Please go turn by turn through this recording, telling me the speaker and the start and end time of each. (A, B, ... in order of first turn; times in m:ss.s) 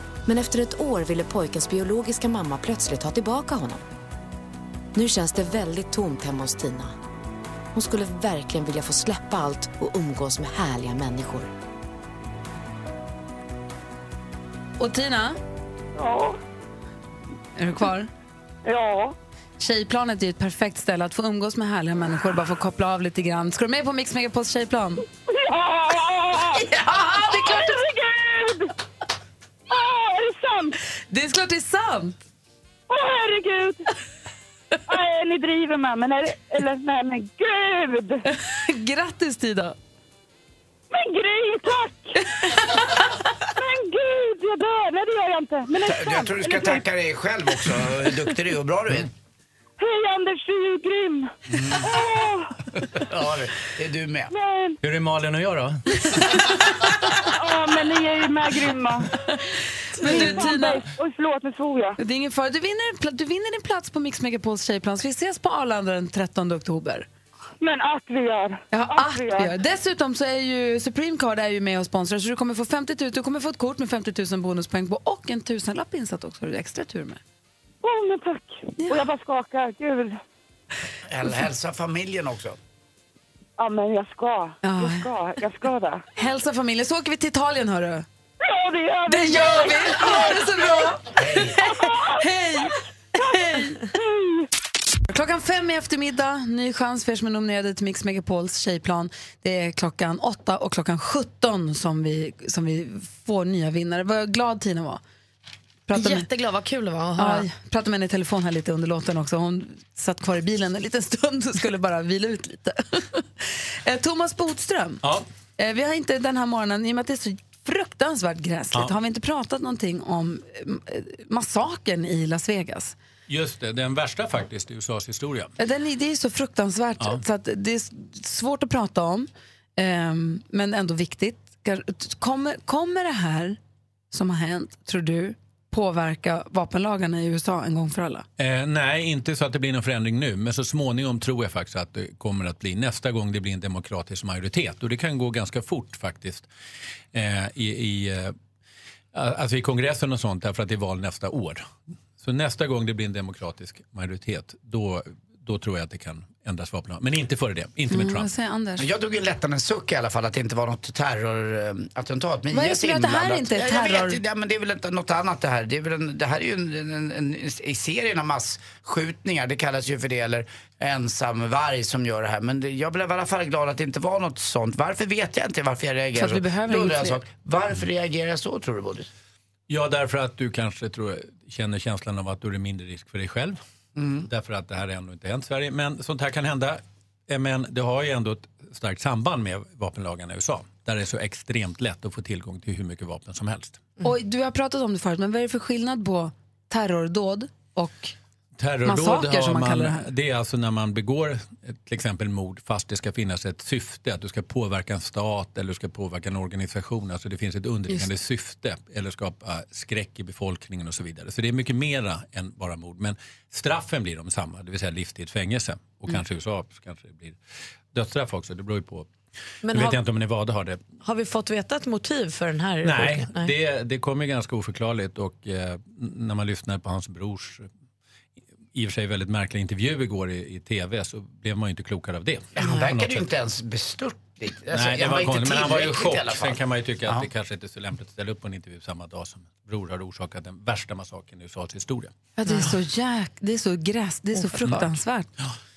0:00.3-0:03.8 A
0:04.9-0:06.9 A
0:07.7-0:11.5 A
0:14.8-0:15.4 B
0:16.0-0:16.4 C
0:17.6-0:18.1 B
0:18.6-0:19.1 C
0:19.6-0:25.0 B
0:25.3-0:28.7 C
0:26.5-0:27.8 B
0:29.7-0:30.8 C
0:31.1-0:32.2 B
0:32.9-0:33.8 C
0:34.9-0:38.2 C
0:38.3-0:39.8 B
0:40.9-0:42.8 C
0:43.6-0:46.8 C
0:45.8-0:49.1 D
0:47.6-0:48.3 C
0:49.8-0:52.5 C
0:51.5-0:51.9 D
0:52.9-0:54.3 D
0:54.3-0:54.8 C
0:54.8-0:56.3 E
0:56.1-0:56.9 B
0:57.3-0:59.1 C
1:00.0-1:00.8 B
1:00.0-1:02.0 C
1:02.0-1:07.1 B
1:07.6-1:09.5 C
1:08.7-1:17.2 B
1:17.8-1:20.2 C
1:18.8-1:19.1 B
1:21.1-1:22.6 D
1:23.6-1:26.0 C
1:24.6-1:25.1 B
1:26.2-1:28.0 B
1:28.4-1:30.9 C
1:29.1-1:33.8 B
1:31.1-1:31.6 D
1:31.6-1:34.4 C
1:35.1-1:45.0 B
1:45.9-1:46.3 B
1:45.9-1:47.4 F
1:47.2-1:55.0 B
1:55.6-2:03.0 B
2:03.3-2:05.5 E
2:05.6-2:13.6 B
2:14.1-2:18.2 B
2:18.4-2:26.5 E
2:27.1-2:28.3 E
2:29.1-2:31.6 E
2:32.2-2:38.3 E
2:37.9-2:38.8 B
2:38.8-2:59.1 D
2:42.5-2:44.2 B
2:56.2-2:57.2 B
2:59.7-3:03.6 E
3:04.0-3:04.3 D
3:04.3-3:13.9 E
3:14.0-3:18.1 B
3:18.6-3:37.4 E
3:18.8-3:20.1 B
3:37.9-3:39.1 E
3:39.6-3:40.0 F
3:39.7-3:40.8 E
3:41.0-3:43.5 F
3:42.8-3:47.7 E
3:48.7-3:53.2 E
3:52.5-3:56.6 D
3:54.7-4:02.1 E
4:02.4-4:05.3 B
4:02.4-4:02.7 F
4:04.7-4:05.5 E